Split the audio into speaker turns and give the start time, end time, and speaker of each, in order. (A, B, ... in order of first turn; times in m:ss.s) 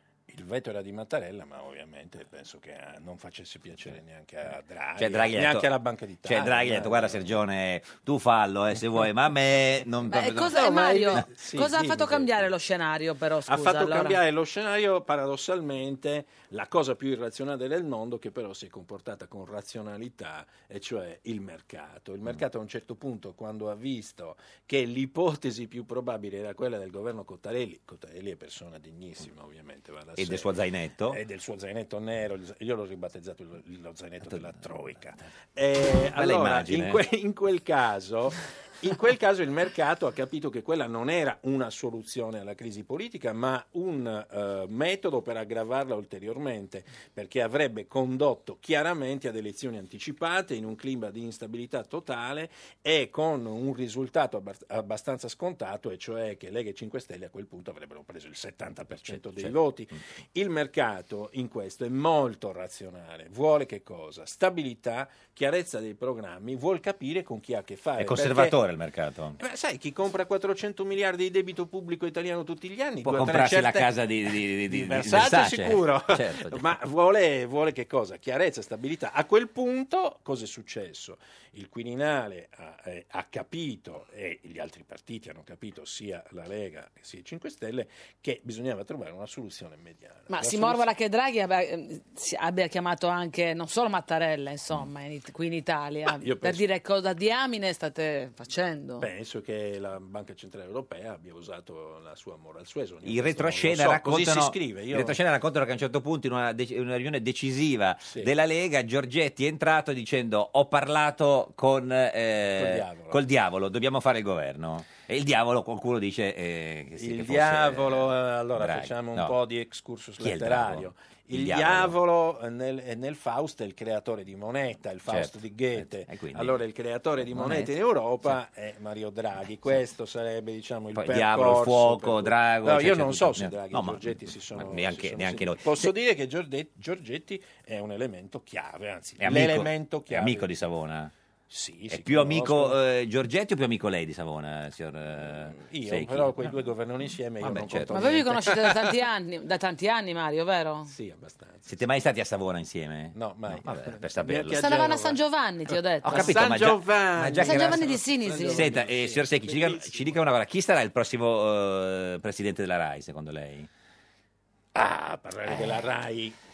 0:00.3-0:07.4 A
0:05.0-0:05.7 B
0:06.2-0:10.6 B
0:10.1-0:14.2 C
0:10.5-0:12.5 A
0:13.5-0:30.6 A
0:30.2-0:31.2 B
0:31.1-1:08.6 A
0:34.3-0:34.6 B
0:36.2-0:37.0 B
0:59.1-0:59.5 B
1:08.0-1:09.4 B
1:09.4-1:13.9 A
1:13.0-1:16.7 B
1:14.7-1:30.9 A
1:30.3-1:39.1 C
1:36.2-1:36.6 A
1:39.0-1:45.2 A
1:43.0-1:59.3 B
1:48.0-1:48.3 A
1:52.6-1:53.2 A
1:57.0-2:20.5 A
2:00.2-2:01.9 B
2:05.1-2:06.6 B
2:07.3-2:07.7 B
2:11.0-2:15.9 B
2:19.2-2:21.1 B
2:21.5-2:22.8 A
2:21.9-2:26.5 B
2:25.1-2:28.9 A
2:27.4-2:27.9 B
2:27.9-2:30.9 C
2:30.9-2:31.7 A
2:31.7-2:34.6 B
2:33.1-2:35.2 A
2:34.6-2:36.4 C
2:36.0-2:37.9 B
2:36.0-2:40.2 A
2:37.4-2:38.7 C
2:38.5-2:43.7 B
2:44.7-2:46.4 A
2:45.5-2:45.8 B